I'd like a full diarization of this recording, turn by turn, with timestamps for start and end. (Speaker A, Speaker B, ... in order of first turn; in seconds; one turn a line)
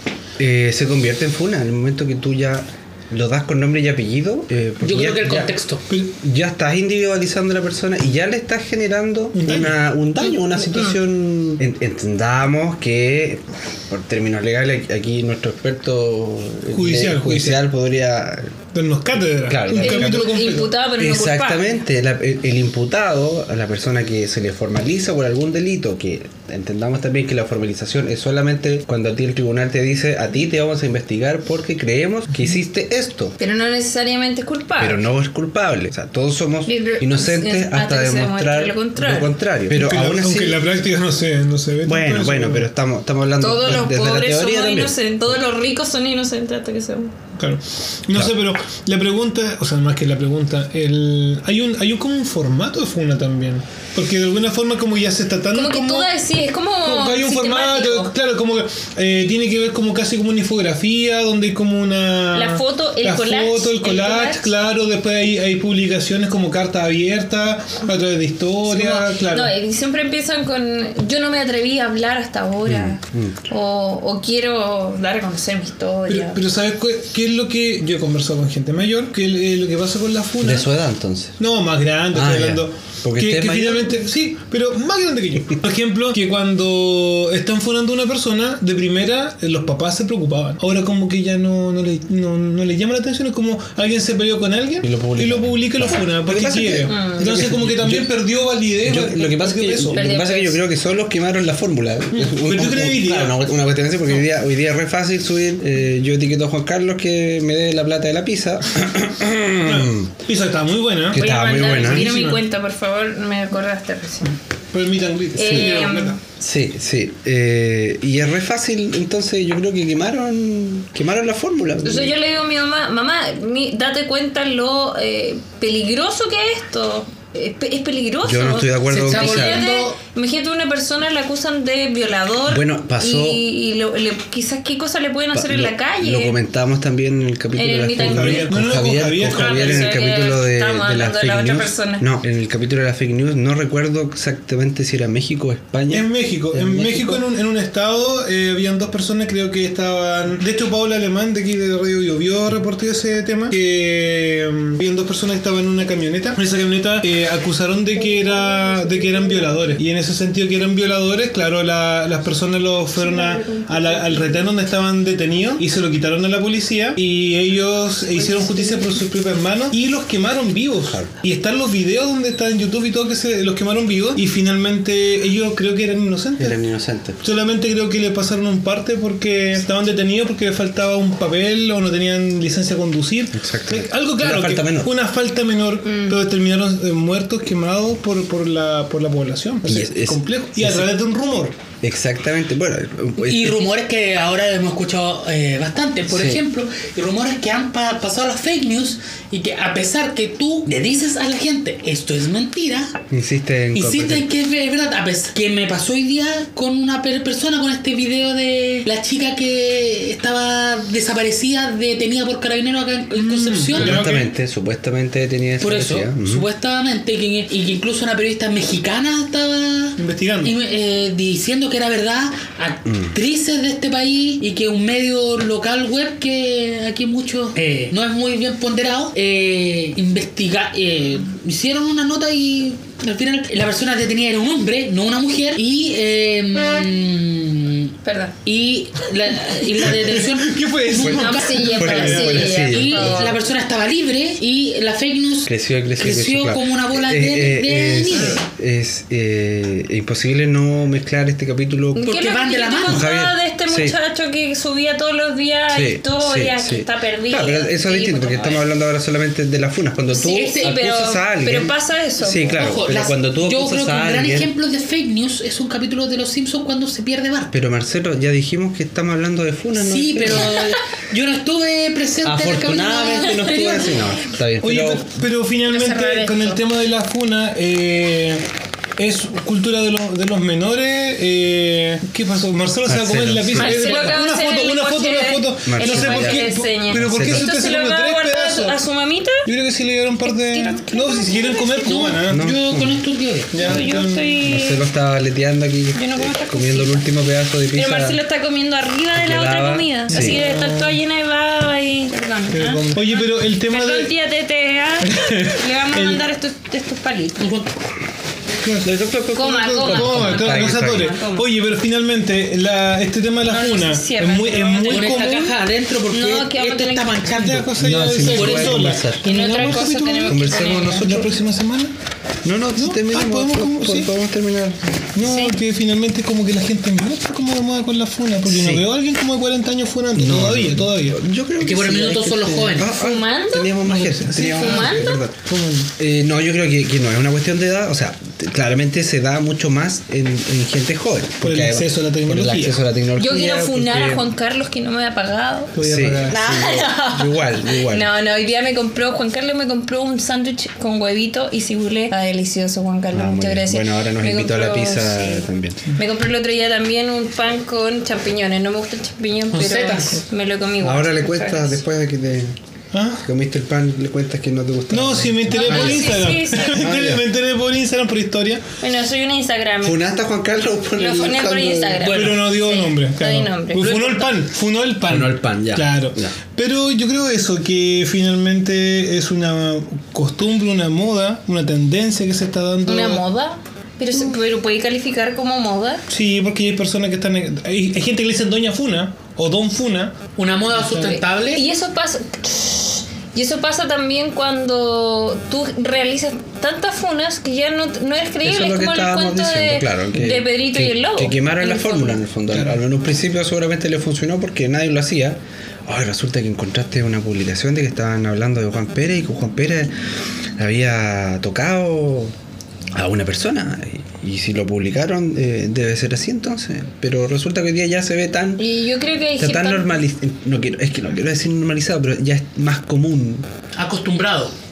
Speaker A: 0.4-5.5
Speaker B: 4.8-5.8
Speaker A: 6.1-18.6
Speaker C: 9.3-9.8
Speaker C: 10.6-11.0
Speaker C: 16.7-17.6
Speaker C: 18.7-20.7
Speaker A: 19.2-20.3
Speaker D: 19.7-21.8
Speaker A: 21.0-33.4
Speaker D: 33.4-35.0
Speaker A: 34.8-40.6
Speaker D: 36.6-39.3
Speaker C: 39.7-42.6
Speaker A: 41.9-45.0
Speaker D: 43.4-47.1
Speaker C: 47.4-56.1
Speaker D: 55.5-58.1
Speaker C: 56.8-69.5
Speaker D: 62.3-64.5
Speaker D: 68.6-76.4
Speaker A: 72.6-73.4
Speaker C: 76.1-80.7
Speaker A: 80.4-81.4
Speaker C: 81.4-100.0
Speaker A: 82.1-84.0
Speaker A: 94.8-98.1
Speaker D: 96.9-97.3
Speaker A: 98.8-110.1
Speaker D: 99.9-100.6
Speaker C: 102.1-103.4
Speaker C: 109.6-112.4
Speaker A: 111.1-112.1
Speaker D: 111.2-114.3
Speaker C: 114.7-116.2
Speaker D: 115.4-116.2
Speaker A: 115.4-115.8
Speaker A: 116.4-122.1
Speaker D: 121.8-136.4
Speaker A: 128.2-129.6
Speaker B: 128.9-130.0
Speaker A: 132.5-133.4
Speaker A: 135.3-147.2
Speaker D: 137.6-138.5
Speaker C: 138.0-139.9
Speaker D: 139.3-142.1
Speaker C: 145.9-176.6
Speaker D: 157.9-159.8
Speaker D: 163.0-164.5
Speaker D: 168.2-168.8
Speaker A: 170.9-171.1
Speaker A: 176.4-177.2
Speaker C: 177.2-191.6
Speaker A: 183.3-184.9
Speaker D: 185.9-186.2
Speaker A: 189.6-190.9
Speaker A: 191.8-193.7
Speaker B: 193.2-202.9
Speaker A: 196.1-196.4
Speaker A: 203.1-204.3
Speaker B: 203.8-214.2
Speaker C: 213.1-214.3
Speaker A: 213.7-216.5
Speaker B: 215.6-237.9
Speaker C: 220.0-220.5
Speaker A: 222.9-223.2
Speaker D: 238.1-238.4
Speaker B: 238.4-248.4
Speaker C: 239.8-242.4
Speaker D: 241.0-243.4
Speaker A: 241.7-243.4
Speaker A: 245.5-252.1
Speaker D: 252.0-258.6
Speaker B: 252.0-253.1
Speaker A: 252.9-254.0
Speaker A: 255.7-264.5
Speaker B: 260.1-260.8
Speaker D: 260.1-262.6
Speaker B: 262.6-267.5
Speaker A: 267.5-270.8
Speaker B: 269.8-274.0
Speaker A: 272.2-275.1
Speaker D: 273.2-274.0
Speaker C: 274.6-278.4
Speaker D: 275.7-276.6
Speaker C: 279.0-288.8
Speaker A: 282.9-283.8
Speaker D: 283.6-289.4
Speaker B: 283.8-284.2
Speaker A: 285.6-287.5
Speaker C: 289.4-292.4
Speaker D: 290.3-292.1
Speaker B: 291.9-293.8
Speaker A: 292.3-293.0
Speaker C: 293.5-294.4
Speaker D: 293.6-294.8
Speaker A: 294.4-298.2
Speaker D: 295.9-297.1
Speaker D: 297.7-307.4
Speaker A: 299.1-300.4
Speaker C: 300.1-301.0
Speaker C: 302.5-304.1
Speaker C: 305.0-306.2
Speaker B: 307.4-307.7
Speaker C: 308.6-308.9
Speaker A: 308.8-311.1
Speaker D: 309.4-311.5
Speaker C: 309.8-315.6
Speaker D: 313.5-315.3
Speaker B: 314.9-317.8
Speaker D: 316.1-317.1
Speaker C: 317.3-321.9
Speaker A: 317.8-319.3
Speaker B: 318.3-318.8
Speaker D: 319.2-321.1
Speaker A: 320.3-321.4
Speaker A: 322.4-324.8
Speaker C: 322.8-324.1
Speaker C: 325.1-331.2
Speaker D: 325.2-325.6
Speaker A: 328.5-328.9
Speaker A: 330.1-335.4
Speaker B: 331.6-332.9
Speaker D: 332.8-335.2
Speaker C: 333.9-335.9
Speaker A: 336.0-344.3
Speaker C: 341.4-342.8
Speaker D: 343.2-345.7
Speaker C: 345.8-346.4
Speaker A: 345.8-348.1
Speaker D: 346.3-361.8
Speaker A: 353.1-355.9
Speaker B: 359.5-360.2
Speaker C: 359.7-360.2
Speaker A: 360.8-362.6
Speaker C: 362.9-363.2
Speaker A: 363.2-366.2
Speaker C: 364.9-368.6
Speaker D: 365.5-366.8
Speaker A: 366.7-367.3
Speaker D: 368.8-370.1
Speaker A: 369.8-372.2
Speaker D: 371.0-374.3
Speaker B: 372.1-372.4
Speaker C: 372.1-383.2
Speaker A: 375.1-376.3
Speaker D: 382.9-386.0
Speaker C: 386.1-390.1
Speaker B: 390.4-391.6
Speaker C: 390.8-391.1
Speaker D: 390.9-402.2
Speaker A: 398.4-409.9
Speaker C: 402.5-402.8
Speaker A: 410.6-412.4
Speaker A: 412.9-418.6
Speaker D: 418.6-420.0
Speaker A: 419.4-423.5
Speaker B: 423.8-424.5